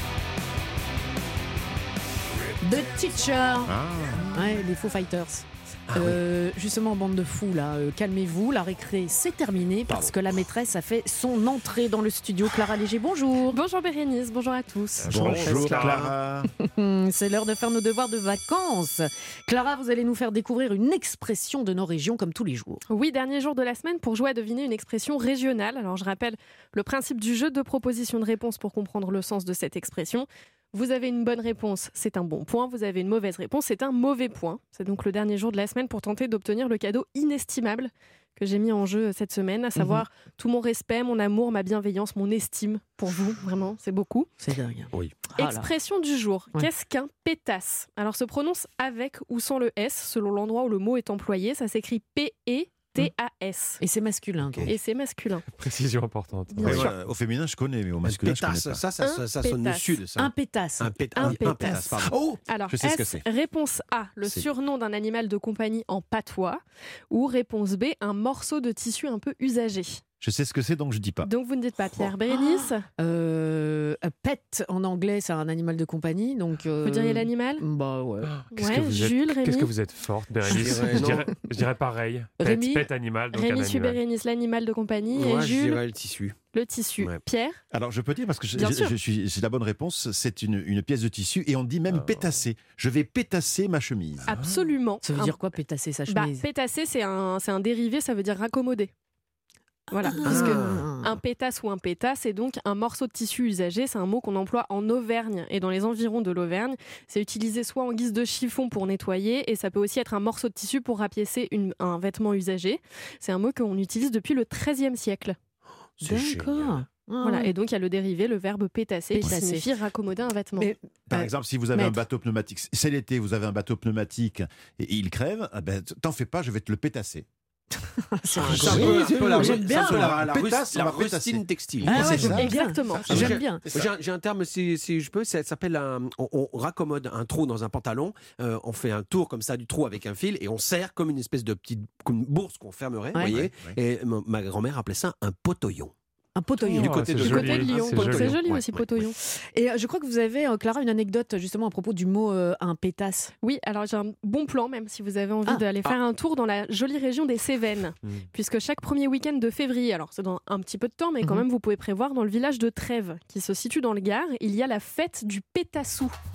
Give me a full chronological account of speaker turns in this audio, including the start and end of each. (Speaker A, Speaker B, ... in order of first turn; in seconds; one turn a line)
Speaker A: 2.6-3.7
Speaker B: 3.6-4.3
Speaker A: 4.3-13.6
Speaker C: 13.5-15.8
Speaker D: 15.0-16.1
Speaker B: 15.0-16.5
Speaker A: 16.6-22.8
Speaker C: 22.9-44.3
Speaker A: 39.8-40.0
Speaker A: 44.4-45.7
Speaker E: 44.9-45.2
Speaker C: 45.3-53.8
Speaker A: 53.8-54.7
Speaker C: 54.7-55.5
Speaker D: 55.6-56.7
Speaker E: 56.6-56.9
Speaker B: 56.6-58.8
Speaker C: 56.6-56.9
Speaker E: 58.0-62.4
Speaker C: 59.0-60.0
Speaker A: 60.2-61.9
Speaker B: 61.2-63.2
Speaker C: 61.2-61.8
Speaker C: 62.5-70.0
Speaker B: 70.2-72.1
Speaker C: 71.2-72.8
Speaker A: 72.3-78.3
Speaker C: 76.8-77.6
Speaker D: 78.2-84.0
Speaker C: 78.5-79.7
Speaker E: 80.5-81.4
Speaker A: 80.6-81.0
Speaker A: 82.4-82.9
Speaker C: 83.3-85.8
Speaker E: 85.1-86.4
Speaker C: 86.5-87.6
Speaker E: 87.0-87.2
Speaker B: 87.7-94.5
Speaker C: 88.5-88.9
Speaker D: 91.9-92.3
Speaker C: 94.3-95.3
Speaker A: 95.0-96.5
Speaker C: 96.1-98.9
Speaker A: 99.9-101.2
Speaker C: 99.9-115.4
Speaker E: 100.2-100.8
Speaker A: 116.0-117.5
Speaker E: 116.0-116.8
Speaker C: 117.2-120.7
Speaker A: 119.1-119.7
Speaker A: 120.5-122.0
Speaker B: 121.1-127.3
Speaker A: 128.1-130.1
Speaker E: 128.3-145.9
Speaker B: 128.4-133.9
Speaker A: 131.8-133.6
Speaker C: 132.3-133.1
Speaker B: 143.3-143.8
Speaker A: 146.3-147.7
Speaker E: 146.6-149.1
Speaker D: 146.7-148.4
Speaker C: 147.2-149.2
Speaker A: 149.2-153.3
Speaker C: 153.4-166.1